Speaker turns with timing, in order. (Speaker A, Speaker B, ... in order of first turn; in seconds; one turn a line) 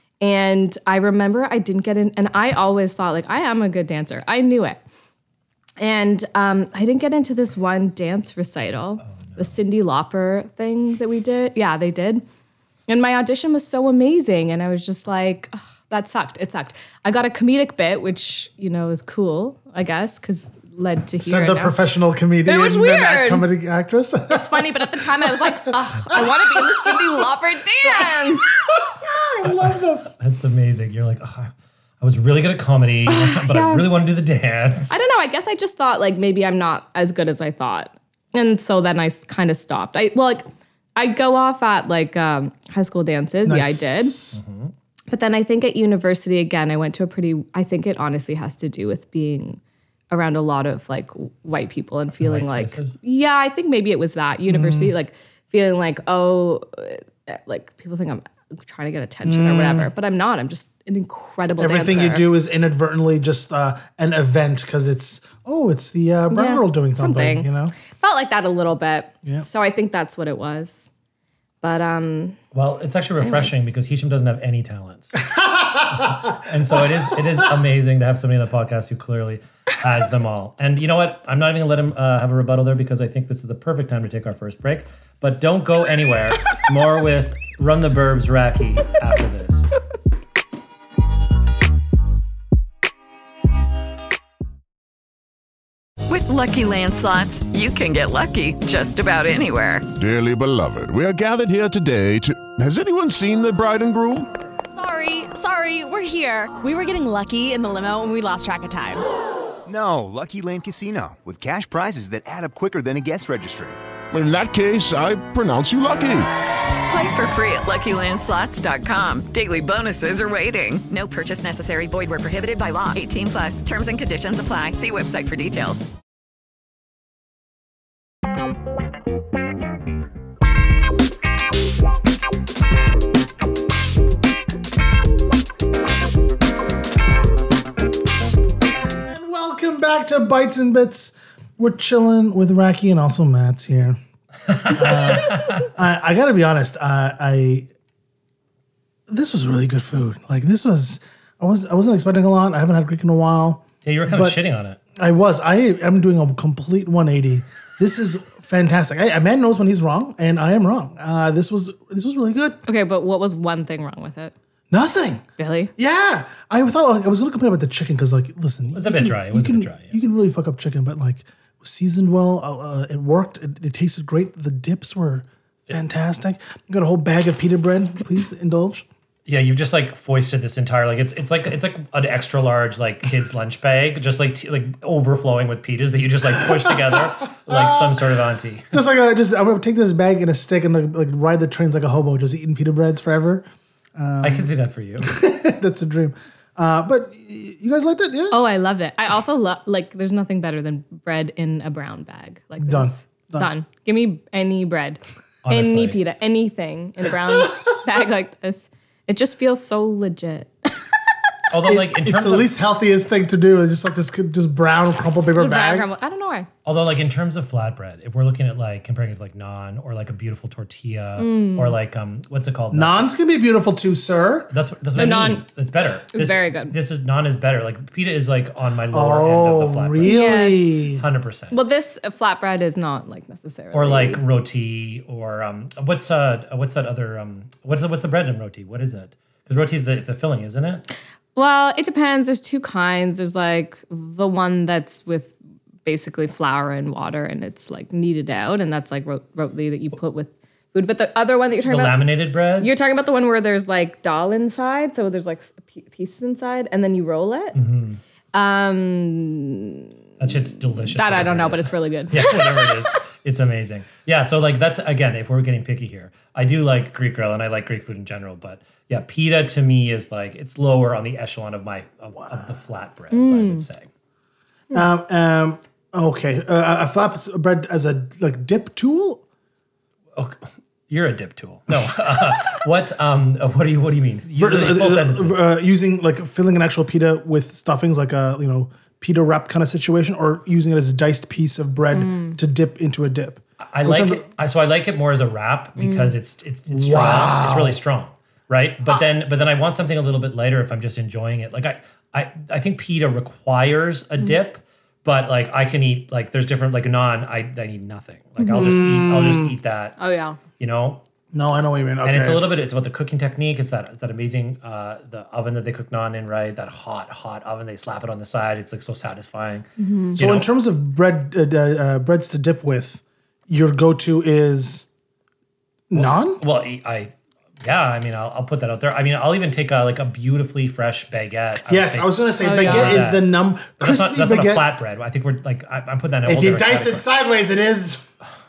Speaker A: 0.2-4.8
Speaker A: 5.8-12.2
Speaker A: 12.9-21.8
Speaker B: 21.2-25.6
Speaker A: 22.4-23.5
Speaker A: 24.3-28.6
Speaker B: 26.1-26.9
Speaker B: 28.0-30.1
Speaker C: 29.4-34.9
Speaker A: 33.1-33.9
Speaker A: 34.9-40.4
Speaker A: 41.0-44.2
Speaker B: 43.4-44.4
Speaker C: 44.4-44.7
Speaker A: 45.1-49.6
Speaker A: 50.1-62.3
Speaker C: 52.2-52.9
Speaker B: 54.5-54.9
Speaker B: 59.2-59.9
Speaker B: 61.6-67.7
Speaker A: 66.3-70.9
Speaker A: 71.6-72.4
Speaker C: 72.5-75.2
Speaker A: 73.2-73.5
Speaker B: 75.3-76.1
Speaker C: 75.9-89.7
Speaker D: 96.1-99.9
Speaker E: 99.9-104.3
Speaker F: 104.7-109.0
Speaker G: 109.7-113.8
Speaker E: 114.1-116.3
Speaker D: 116.8-125.9
Speaker B: 139.1-144.0
Speaker B: 144.6-147.7
Speaker C: 144.7-145.6
Speaker B: 149.1-154.4
Speaker C: 153.8-154.8
Speaker B: 154.9-162.6
Speaker A: 162.7-164.3
Speaker B: 164.7-165.2
Speaker A: 165.4-165.7
Speaker B: 165.8-178.8
Speaker C: 168.7-169.9
Speaker C: 179.3-188.7
Speaker B: 186.4-188.0
Speaker B: 188.7-198.4
Speaker C: 194.2-195.1
Speaker A: 198.3-210.5
Speaker B: 202.6-203.5
Speaker C: 205.4-206.0
Speaker C: 211.5-212.5
Speaker B: 211.6-215.9
Speaker A: 215.3-216.5
Speaker C: 216.6-223.1
Speaker A: 221.2-221.7
Speaker B: 222.7-224.5
Speaker C: 224.5-230.3
Speaker A: 224.9-225.4
Speaker A: 226.1-226.7
Speaker B: 228.9-231.0
Speaker A: 230.0-230.8
Speaker C: 230.9-231.6
Speaker A: 231.5-234.2
Speaker C: 233.7-240.8
Speaker A: 241.3-257.6
Speaker C: 251.7-252.7
Speaker C: 257.5-258.0
Speaker A: 258.3-259.9
Speaker C: 260.2-273.9
Speaker A: 260.9-262.8
Speaker A: 273.1-273.6
Speaker B: 274.7-279.2
Speaker C: 280.1-285.4
Speaker B: 284.4-294.2
Speaker A: 291.9-292.4
Speaker C: 293.7-310.0
Speaker A: 295.8-296.1
Speaker B: 296.7-297.8
Speaker A: 308.4-308.7
Speaker B: 308.4-309.5
Speaker A: 310.0-310.4
Speaker C: 310.6-311.0
Speaker B: 311.3-312.5
Speaker C: 312.0-320.5
Speaker A: 319.8-320.1
Speaker B: 320.1-324.9
Speaker B: 325.9-326.4
Speaker C: 325.9-333.2
Speaker B: 331.7-334.7
Speaker A: 332.4-333.1
Speaker C: 333.8-337.1
Speaker B: 336.2-338.1